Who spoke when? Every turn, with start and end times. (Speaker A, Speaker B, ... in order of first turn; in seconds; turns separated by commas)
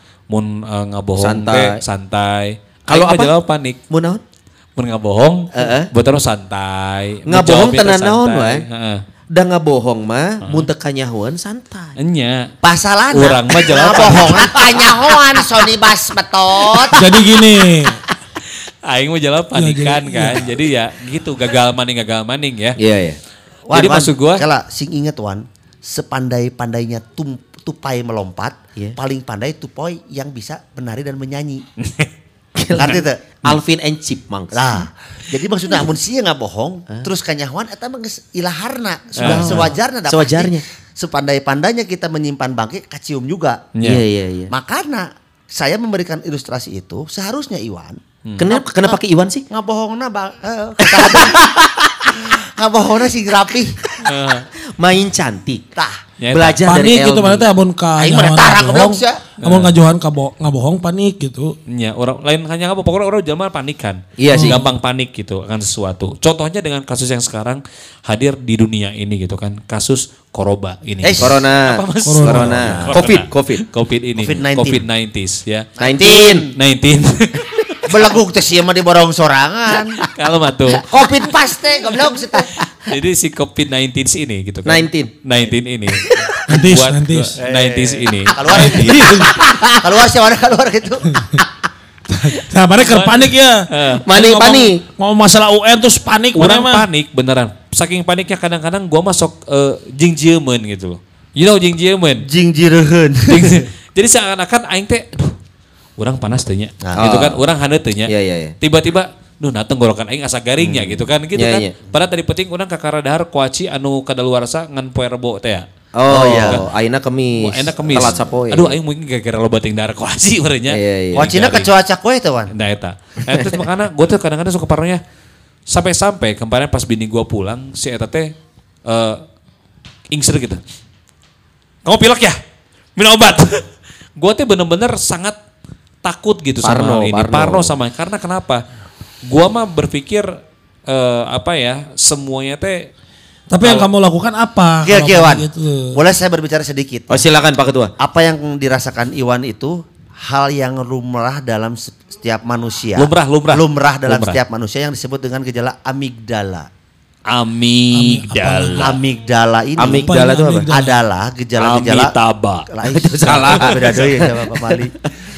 Speaker A: 0.3-3.8, Speaker B: 1.2-1.8, Speaker B: 2.9-3.3, Speaker B: 3.9-4.2, Speaker A: 4.8-9.0, Speaker B: 5.5-5.9, Speaker B: 7.2-8.6, Speaker B: 9.3-11.9, Speaker A: 10.4-10.7, Speaker A: 12.0-12.5, Speaker C: 12.6-17.0, Speaker A: 13.1-14.8, Speaker B: 13.9-14.9, Speaker D: 16.9-18.0, Speaker A: 18.9-22.8, Speaker D: 19.5-20.5, Speaker B: 22.8-23.2, Speaker C: 23.7-31.6, Speaker A: 23.7-24.4, Speaker B: 32.6-34.8, Speaker C: 32.7-33.6, Speaker C: 34.5-43.7, Speaker A: 39.2-39.7, Speaker B: 39.2-40.6, Speaker A: 43.8-44.0, Speaker B: 43.8-44.5, Speaker C: 44.5-49.0, Speaker A: 48.2-48.5, Speaker B: 48.4-49.4, Speaker C: 49.5-51.5, Speaker B: 50.8-52.1, Speaker C: 52.1-53.8, Speaker B: 53.8-54.1, Speaker A: 54.0-54.5, Speaker B: 54.8-55.6, Speaker C: 55.7-56.0, Speaker A: 56.2-56.6, Speaker B: 56.3-57.4, Speaker D: 56.6-61.5, Speaker C: 58.0-59.2, Speaker A: 59.4-59.7, Speaker A: 61.7-75.7, Speaker B: 64.2-64.6, Speaker D: 64.3-64.7, Speaker C: 71.0-71.4, Speaker B: 71.2-73.6, Speaker D: 72.0-72.9, Speaker C: 72.7-73.1, Speaker C: 74.2-74.8, Speaker C: 75.8-76.5, Speaker B: 75.8-76.5, Speaker A: 76.5-77.7, Speaker C: 77.8-80.0, Speaker A: 80.1-80.8, Speaker C: 80.8-82.5, Speaker B: 82.3-82.9, Speaker A: 82.9-89.1, Speaker B: 84.7-85.1, Speaker B: 86.0-86.4, Speaker D: 86.5-87.4, Speaker C: 87.4-91.4, Speaker D: 88.5-89.3, Speaker B: 89.2-89.8, Speaker D: 91.1-91.4, Speaker D: 92.1-96.8, Speaker A: 92.8-94.0, Speaker B: 94.0-94.8, Speaker A: 96.3-102.2, Speaker C: 102.2-103.6, Speaker A: 103.3-105.3, Speaker A: 106.0-115.7, Speaker C: 106.8-107.1, Speaker B: 107.0-107.4, Speaker B: 108.1-108.5, Speaker C: 110.7-111.0, Speaker B: 111.3-111.8, Speaker B: 115.9-118.8, Speaker C: 116.1-116.6, Speaker A: 116.3-116.6, Speaker A: 117.4-121.7, Speaker C: 117.9-118.2, Speaker B: 120.7-121.3, Speaker C: 121.1-122.5, Speaker A: 122.5-125.0, Speaker B: 123.3-123.6, Speaker A: 125.7-128.3, Speaker A: 128.8-129.2, Speaker A: 130.1-130.6, Speaker A: 131.8-132.4, Speaker A: 132.9-133.6, Speaker A: 134.2-135.3, Speaker A: 136.0-138.6, Speaker B: 136.6-137.7, Speaker A: 139.3-140.3, Speaker A: 140.9-142.9, Speaker D: 143.5-146.0, Speaker A: 143.6-143.9, Speaker C: 144.8-147.2, Speaker B: 147.1-147.9, Speaker C: 148.0-156.7, Speaker A: 152.9-154.4, Speaker A: 157.3-159.0, Speaker D: 157.9-159.0, Speaker C: 158.8-160.2, Speaker B: 159.8-160.7, Speaker D: 159.9-160.9, Speaker C: 160.7-162.1, Speaker A: 161.6-162.7, Speaker C: 162.7-164.9, Speaker B: 162.9-165.0, Speaker A: 163.3-164.1